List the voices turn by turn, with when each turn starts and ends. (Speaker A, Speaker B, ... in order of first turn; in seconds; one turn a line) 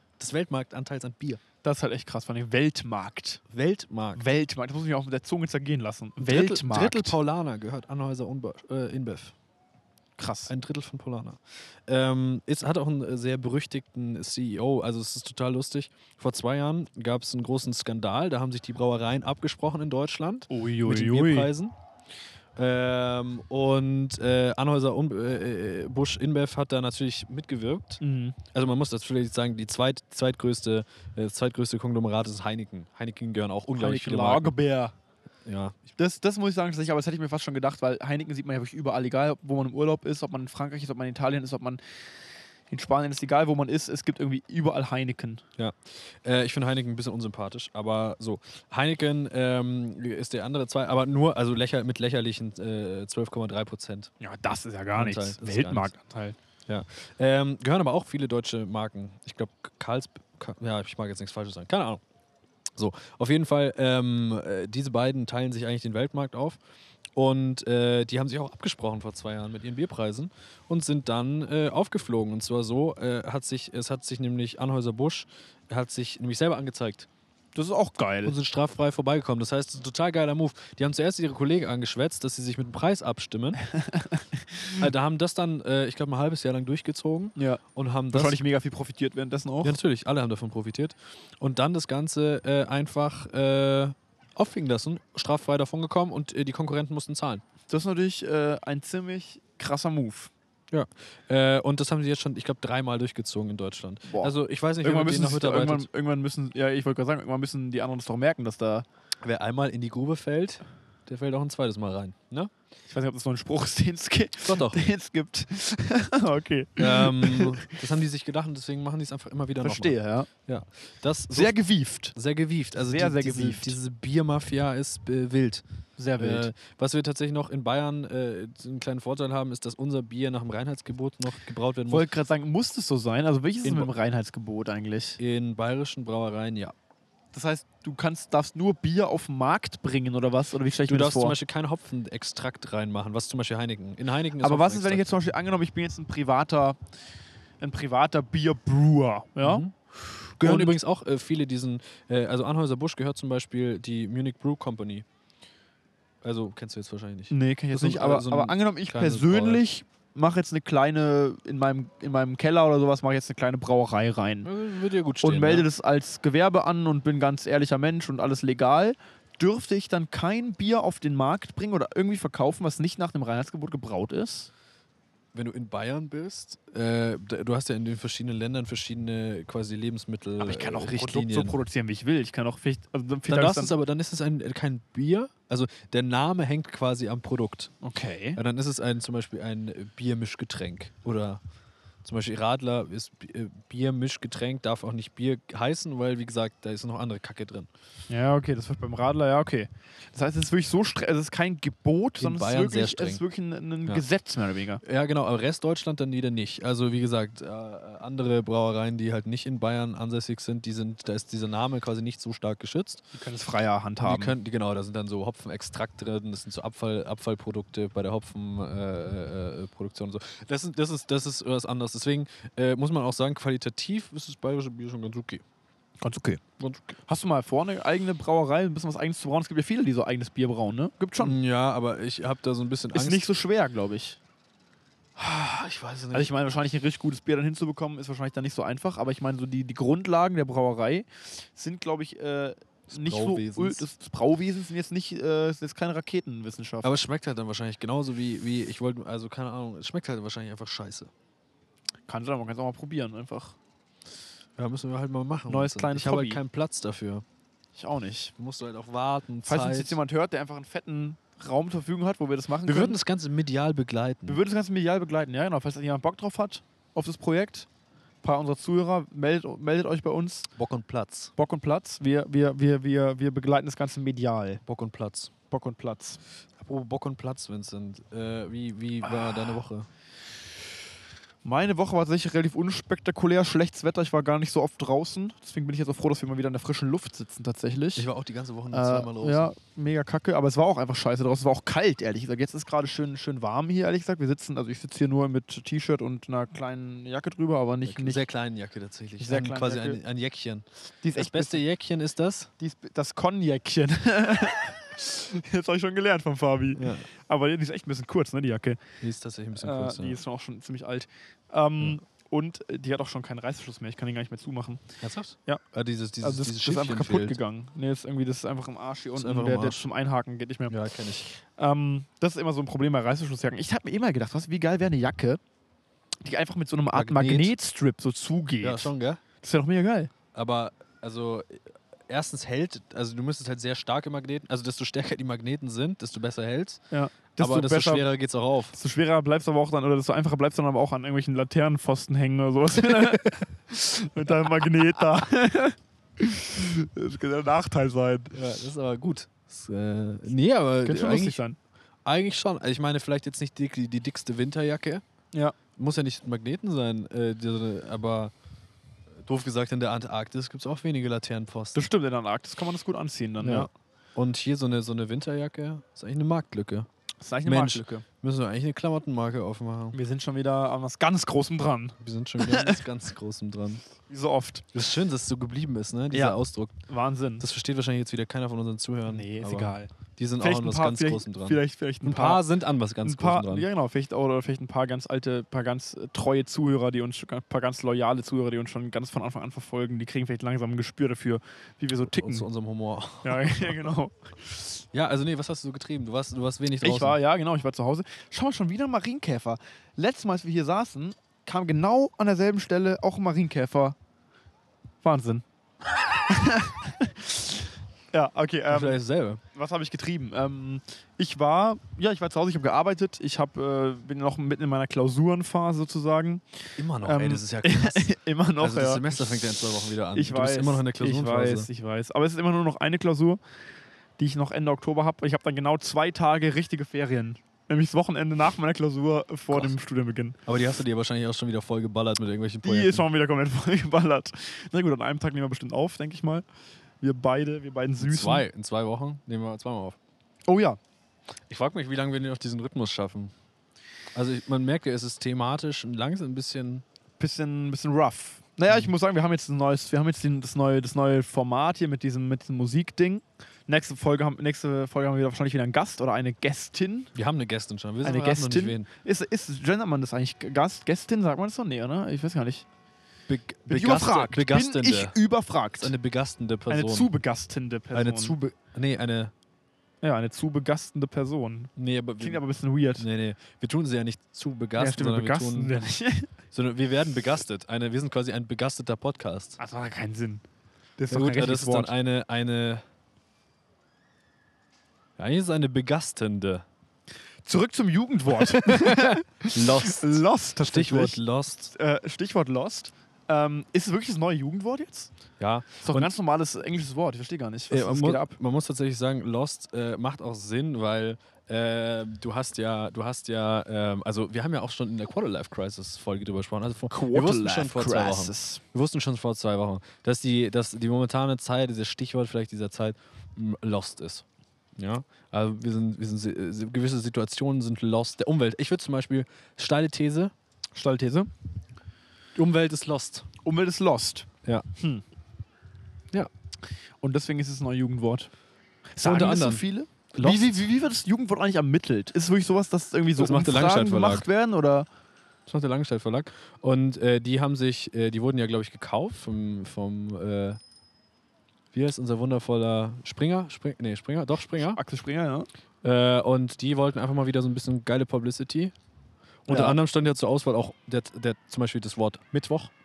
Speaker A: 0.2-1.4
Speaker B: 1.6-3.4
Speaker A: 3.5-4.2
Speaker B: 4.2-7.2
Speaker A: 6.2-9.3
Speaker B: 10.2-10.5
Speaker A: 10.5-21.7
Speaker B: 20.5-21.5
Speaker A: 22.6-34.5
Speaker B: 28.0-28.4
Speaker B: 33.8-34.9
Speaker A: 35.5-35.8
Speaker B: 36.0-41.8
Speaker B: 42.7-45.4
Speaker A: 45.6-54.1
Speaker B: 54.2-56.4
Speaker A: 55.0-55.9
Speaker A: 56.7-62.0
Speaker A: 62.8-66.6
Speaker A: 67.2-77.1
Speaker B: 77.5-78.3
Speaker A: 78.2-83.6
Speaker B: 83.7-84.8
Speaker A: 84.8-88.4
Speaker B: 87.4-89.8
Speaker A: 89.6-97.4
Speaker B: 97.7-100.3
Speaker A: 100.7-105.9
Speaker B: 104.1-108.9
Speaker A: 109.2-112.5
Speaker B: 112.9-117.7
Speaker A: 114.4-114.8
Speaker A: 116.8-121.6
Speaker B: 119.6-120.3
Speaker B: 121.3-122.1
Speaker A: 122.1-125.6
Speaker B: 122.8-123.8
Speaker B: 126.0-126.5
Speaker A: 126.2-132.1
Speaker B: 131.9-135.2
Speaker A: 133.6-133.9
Speaker A: 135.2-136.8
Speaker B: 137.3-141.4
Speaker A: 140.9-145.2
Speaker B: 144.4-146.8
Speaker B: 147.6-149.7
Speaker A: 149.4-149.7
Speaker A: 150.4-155.1
Speaker B: 150.4-150.8
Speaker A: 156.2-159.6
Speaker B: 157.3-164.5
Speaker A: 164.4-165.7
Speaker B: 165.2-174.5
Speaker A: 175.3-181.6
Speaker B: 180.4-183.7
Speaker A: 183.3-187.7
Speaker B: 187.8-188.4
Speaker A: 188.4-191.4
Speaker A: 192.0-197.7
Speaker B: 198.1-204.8
Speaker A: 202.2-203.2
Speaker A: 204.8-213.0
Speaker B: 213.1-214.4
Speaker A: 214.0-225.4
Speaker B: 226.0-226.4
Speaker A: 226.6-227.0
Speaker B: 227.1-231.4
Speaker A: 231.2-233.3
Speaker B: 232.9-234.2
Speaker A: 235.2-236.3
Speaker B: 236.1-246.9
Speaker A: 242.9-243.9
Speaker A: 246.8-251.1
Speaker B: 252.1-253.6
Speaker A: 254.6-257.2
Speaker B: 255.5-256.4
Speaker B: 257.8-258.3
Speaker A: 258.4-260.0
Speaker B: 259.4-263.0
Speaker A: 262.7-264.4
Speaker B: 264.3-267.7
Speaker B: 268.2-270.5
Speaker A: 270.6-271.3
Speaker B: 271.4-274.6
Speaker A: 274.6-275.3
Speaker B: 275.5-276.2
Speaker A: 276.6-279.9
Speaker B: 279.0-279.6
Speaker B: 281.4-288.1
Speaker A: 288.0-289.5
Speaker B: 288.7-298.2
Speaker A: 297.9-302.5
Speaker B: 299.2-300.0
Speaker B: 301.0-301.6
Speaker B: 302.6-308.8
Speaker A: 306.8-307.1
Speaker A: 309.0-310.2
Speaker B: 309.6-314.8
Speaker A: 315.0-317.4
Speaker B: 316.2-325.4
Speaker A: 319.1-319.8
Speaker A: 320.7-321.3
Speaker B: 326.2-330.1
Speaker A: 326.9-327.5
Speaker A: 328.6-329.2
Speaker A: 330.3-336.8
Speaker B: 336.9-338.1
Speaker A: 337.4-338.8
Speaker B: 338.7-348.4
Speaker A: 348.3-351.4
Speaker B: 350.9-351.6
Speaker A: 352.1-355.0
Speaker A: 355.8-358.3
Speaker A: 359.2-361.9
Speaker B: 361.8-363.7
Speaker A: 363.4-366.9
Speaker B: 367.2-368.1
Speaker A: 367.4-370.0
Speaker B: 369.9-372.8
Speaker A: 372.0-373.8
Speaker B: 374.1-374.7
Speaker A: 374.7-376.8
Speaker B: 376.1-377.4
Speaker A: 377.4-383.7
Speaker B: 379.1-382.4
Speaker B: 383.0-392.5
Speaker A: 392.1-393.8
Speaker B: 393.2-394.8
Speaker A: 394.9-397.2
Speaker B: 396.8-404.0
Speaker B: 405.0-405.4
Speaker B: 406.3-407.6
Speaker B: 408.1-409.0
Speaker A: 408.7-409.4
Speaker B: 409.5-419.5
Speaker A: 416.8-421.7
Speaker B: 420.1-423.4
Speaker B: 424.2-430.4
Speaker A: 430.5-433.1
Speaker B: 432.6-436.4
Speaker B: 437.0-438.4
Speaker A: 438.0-440.0
Speaker B: 440.5-440.8
Speaker A: 441.5-443.3
Speaker A: 444.1-446.8
Speaker B: 447.2-457.1
Speaker A: 457.1-458.9
Speaker B: 458.0-462.6
Speaker A: 463.3-465.2
Speaker B: 463.7-465.9
Speaker A: 465.8-467.1
Speaker B: 466.7-468.4
Speaker A: 467.9-469.3
Speaker B: 470.0-473.1
Speaker A: 471.8-472.4
Speaker A: 473.0-475.8
Speaker B: 474.8-476.3
Speaker A: 476.5-479.6
Speaker B: 479.6-480.4
Speaker B: 481.0-481.9
Speaker A: 481.1-482.8
Speaker A: 485.2-486.6
Speaker B: 487.4-495.1
Speaker A: 488.4-491.7
Speaker A: 495.4-496.1
Speaker B: 495.8-498.4
Speaker A: 497.7-514.2
Speaker B: 506.9-508.6
Speaker A: 514.8-520.3
Speaker B: 520.8-521.3
Speaker A: 522.4-523.3
Speaker B: 523.4-525.0
Speaker B: 527.0-528.3
Speaker B: 529.0-534.9
Speaker A: 529.0-530.6
Speaker A: 533.2-534.3
Speaker A: 535.5-540.6
Speaker A: 541.7-544.8
Speaker B: 544.6-545.5
Speaker A: 545.8-548.7
Speaker A: 549.5-552.7
Speaker B: 549.5-549.8